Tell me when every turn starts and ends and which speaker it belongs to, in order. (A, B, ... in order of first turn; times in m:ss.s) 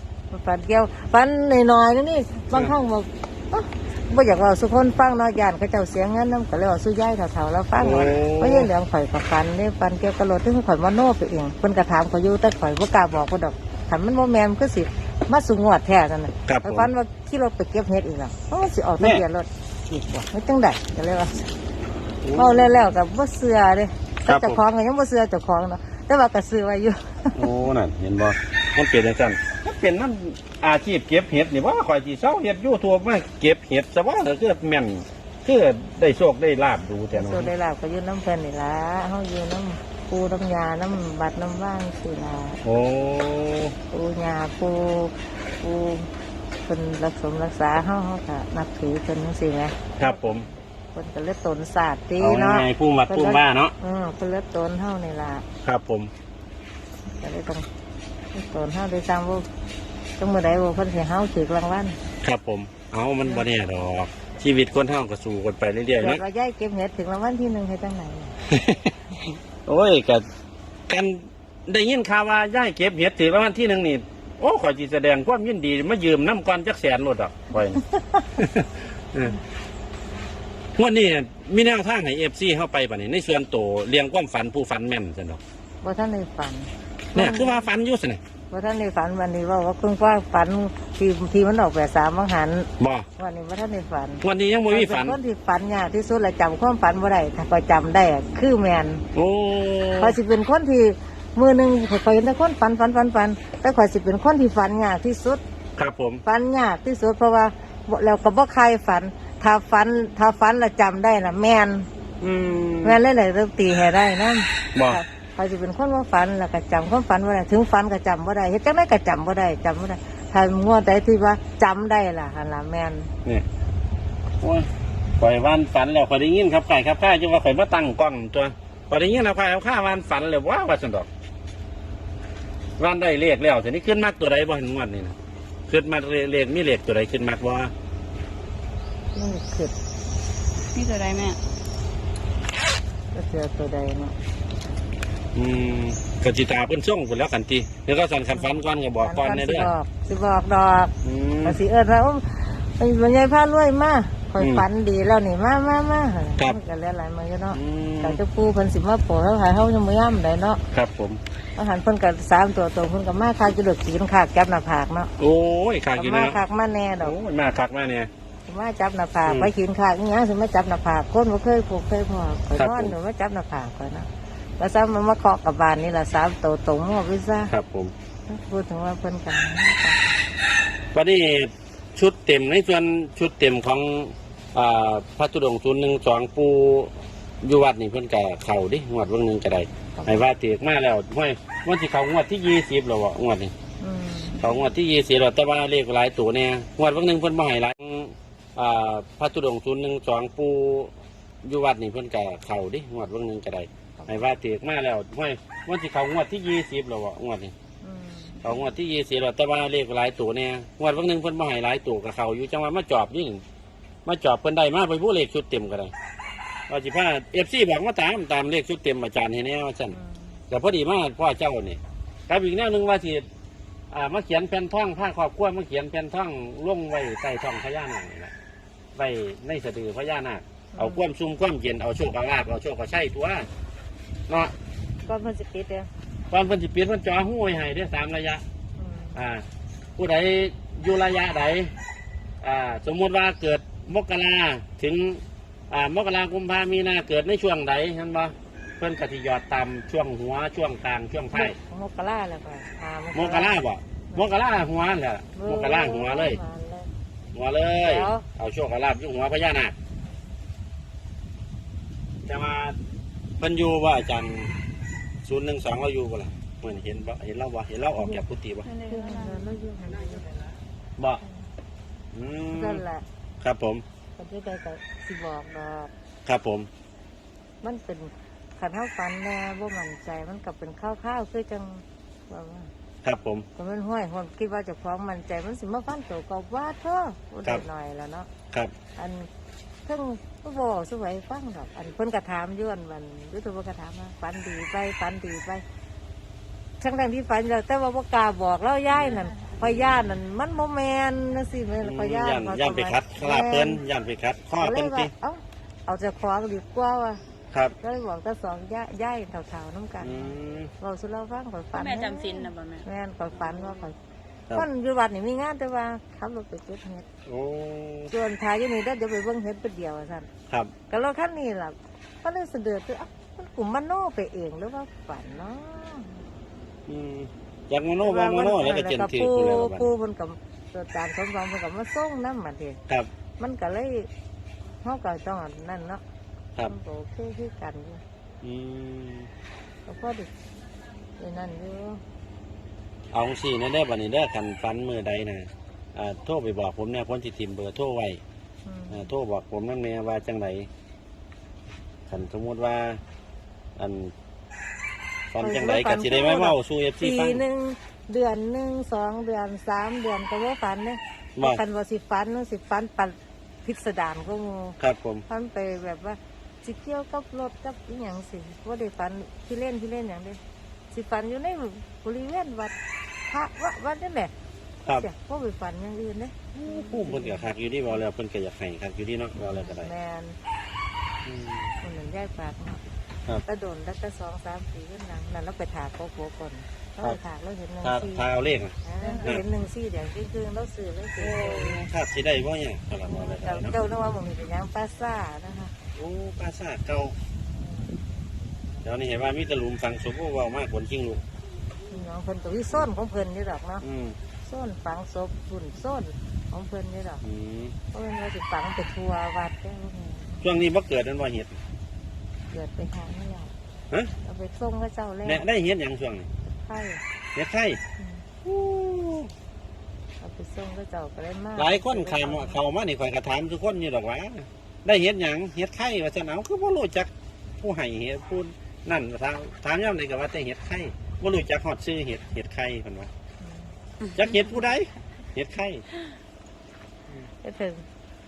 0:00.3-0:21.5 A
0:07.8-0:08.7 B
0:16.5-0:16.9 B
0:22.2-0:22.9 B
0:22.3-0:27.5 A
0:24.3-0:24.6 B
0:27.4-0:37.5 B
0:37.1-0:42.6 A
0:42.6-0:43.8 B
0:43.9-0:46.1 A
0:46.6-0:55.4 A
0:50.0-0:50.4 B
0:52.2-0:53.8 B
0:55.6-0:56.1 B
0:57.2-0:57.7 A
0:58.3-0:59.5 A
1:00.2-1:02.0 A
1:02.2-1:06.2 B
1:06.0-1:08.4 A
1:08.5-1:10.2 B
1:10.9-1:17.8 B
1:17.7-1:18.4 A
1:18.4-1:19.4 B
1:20.8-1:25.4 B
1:25.8-1:27.7 A
1:27.2-1:28.2 B
1:28.5-1:39.0 A
1:32.8-1:33.1 B
1:34.2-1:35.2 B
1:39.1-1:40.2 B
1:40.0-1:45.4 A
1:45.8-1:46.2 B
1:46.2-1:51.9 A
1:52.2-1:53.0 B
1:52.8-2:03.1 A
1:54.8-1:55.0 B
2:04.4-2:11.1 B
2:12.8-2:15.2 B
2:15.7-2:17.7 B
2:19.1-2:19.7 A
2:20.7-2:21.4 C
2:23.1-2:24.2 A
2:25.3-2:29.7 B
2:29.0-2:30.9 A
2:31.0-2:31.6 B
2:31.4-2:40.6 A
2:34.4-2:34.7 B
2:37.5-2:38.2 B
2:40.7-2:41.2 B
2:41.6-2:45.1 A
2:45.2-2:46.4 B
2:46.0-2:47.2 A
2:47.0-2:48.1 B
2:48.5-2:54.1 A
2:49.3-2:49.5 B
2:52.6-2:53.0 B
2:54.6-2:57.5 A
2:57.5-2:57.9 B
2:58.3-3:00.0 A
3:00.9-3:13.5 B
3:10.0-3:10.3 A
3:13.8-3:14.6 A
3:14.4-3:20.9 B
3:21.4-3:27.5 B
3:24.0-3:24.3 A
3:27.8-3:28.7 A
3:28.4-3:33.4 B
3:34.0-3:35.9 B
3:36.7-3:40.0 B
3:39.9-3:40.4 A
3:40.5-3:43.3 B
3:43.9-3:48.3 B
3:49.0-3:53.5 B
3:50.7-3:51.1 A
3:54.3-3:54.6 B
3:55.1-3:55.9 A
3:56.3-3:58.4 B
3:58.8-3:59.2 A
3:59.2-3:59.5 B
4:00.0-4:01.7 B
4:02.4-4:11.6 B
4:11.3-4:13.6 A
4:13.1-4:16.4 B
4:15.4-4:16.9 A
4:17.3-4:19.8 B
4:17.8-4:18.2 A
4:22.3-4:22.8 B
4:23.4-4:24.6 B
4:25.2-4:28.7 B
4:28.6-4:29.4 C
4:28.9-4:30.4 A
4:31.0-4:31.2 B
4:32.1-4:32.8 B
4:32.5-4:33.0 A
4:33.4-4:33.8 B
4:34.2-4:35.9 A
4:36.3-4:36.7 B
4:37.6-4:42.7 A
4:43.0-4:43.5 B
4:43.6-4:48.3 A
4:49.0-4:49.3 A
4:49.9-4:55.6 A
4:56.8-5:03.8 A
5:01.8-5:05.1 B
5:04.6-5:07.2 A
5:07.8-5:14.0 A
5:10.0-5:10.7 B
5:11.7-5:12.8 C
5:14.5-5:17.1 A
5:17.3-5:18.1 B
5:18.1-5:20.3 A
5:20.9-5:26.2 A
5:26.9-5:29.9 B
5:28.0-5:32.8 A
5:33.4-5:34.1 A
5:34.8-5:36.0 A
5:36.7-5:38.0 A
5:38.4-5:39.3 B
5:39.9-5:40.3 A
5:41.2-5:42.0 A
5:43.1-5:48.2 B
5:48.7-5:49.1 A
5:48.9-5:50.7 B
5:52.1-5:53.0 B
5:53.8-5:54.1 B
5:55.3-5:57.4 B
5:55.4-6:04.8 A
6:04.8-6:05.2 B
6:05.3-6:10.4 A
6:10.9-6:12.8 A
6:13.3-6:14.3 A
6:14.9-6:17.4 A
6:16.6-6:19.9 B
6:19.4-6:20.4 A
6:21.3-6:21.7 B
6:21.8-6:22.8 A
6:23.4-6:31.8 A
6:27.8-6:29.4 B
6:31.2-6:33.7 B
6:33.0-6:35.7 A
6:36.0-6:37.2 B
6:38.8-6:41.2 B
6:41.9-6:43.8 A
6:43.8-6:44.2 B
6:44.4-6:47.2 A
6:47.2-6:47.8 B
6:47.9-6:50.4 A
6:50.4-6:51.6 B
6:52.5-6:53.5 A
6:54.2-6:55.5 A
6:55.2-6:56.3 B
6:56.5-6:57.0 A
6:57.4-6:57.8 B
6:58.4-6:59.3 B
7:00.2-7:02.6 A
7:01.6-7:13.1 B
7:14.1-7:15.8 B
7:17.4-7:17.8 A